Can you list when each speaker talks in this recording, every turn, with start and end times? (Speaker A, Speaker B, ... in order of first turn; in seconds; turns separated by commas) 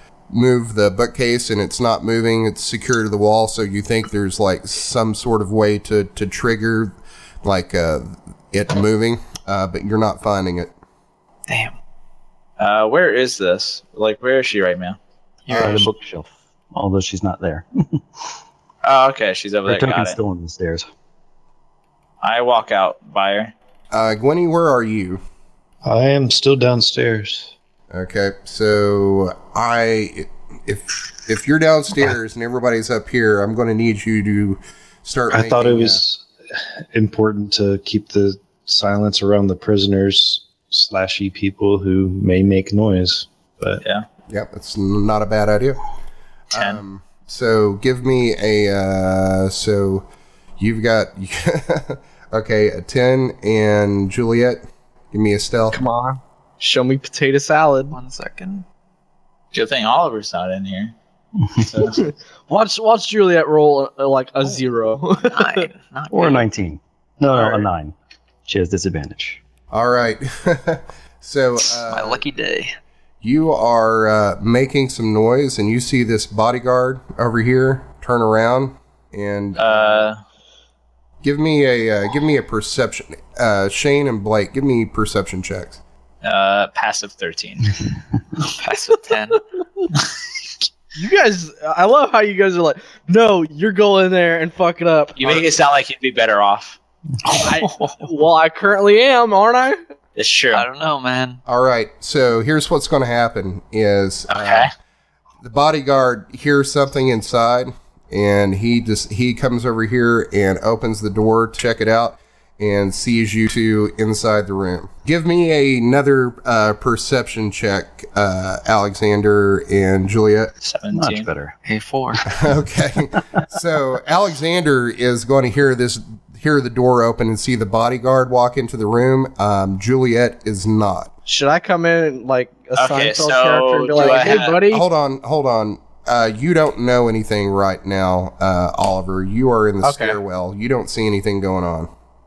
Speaker A: 0.3-10.7, Speaker B: 11.5-11.7, Speaker C: 12.6-15.0, Speaker B: 15.4-15.9, Speaker D: 15.5-18.2, Speaker A: 15.5-15.9, Speaker C: 18.8-20.2, Speaker D: 19.6-20.9, Speaker C: 22.2-23.5, Speaker A: 23.9-25.2, Speaker E: 25.8-27.5, Speaker A: 27.9-36.0, Speaker E: 35.3-43.8, Speaker A: 44.3-45.8, Speaker C: 46.5-46.8, Speaker A: 46.5-50.0, Speaker A: 50.6-55.8, Speaker F: 55.7-58.0, Speaker B: 57.9-58.6, Speaker C: 59.5-60.9, Speaker C: 61.6-62.0, Speaker F: 61.8-65.7, Speaker B: 65.2-66.5, Speaker D: 66.1-67.9, Speaker F: 67.3-67.7, Speaker D: 68.5-69.4, Speaker A: 69.7-72.2, Speaker B: 71.7-72.7, Speaker A: 73.2-80.1, Speaker C: 79.6-80.2, Speaker A: 81.2-85.8, Speaker C: 86.2-87.7, Speaker B: 88.5-89.4, Speaker F: 90.9-95.4, Speaker C: 95.2-96.8, Speaker B: 97.2-98.1, Speaker F: 97.4-99.8, Speaker C: 100.2-100.6, Speaker B: 100.5-101.4, Speaker A: 101.5-104.7, Speaker C: 104.3-104.7, Speaker A: 105.4-120.5, Speaker C: 120.6-121.3, Speaker D: 120.9-121.6, Speaker B: 121.7-122.2, Speaker A: 122.3-131.1, Speaker F: 131.2-134.9, Speaker C: 132.8-134.6, Speaker A: 134.7-141.9, Speaker F: 139.8-140.2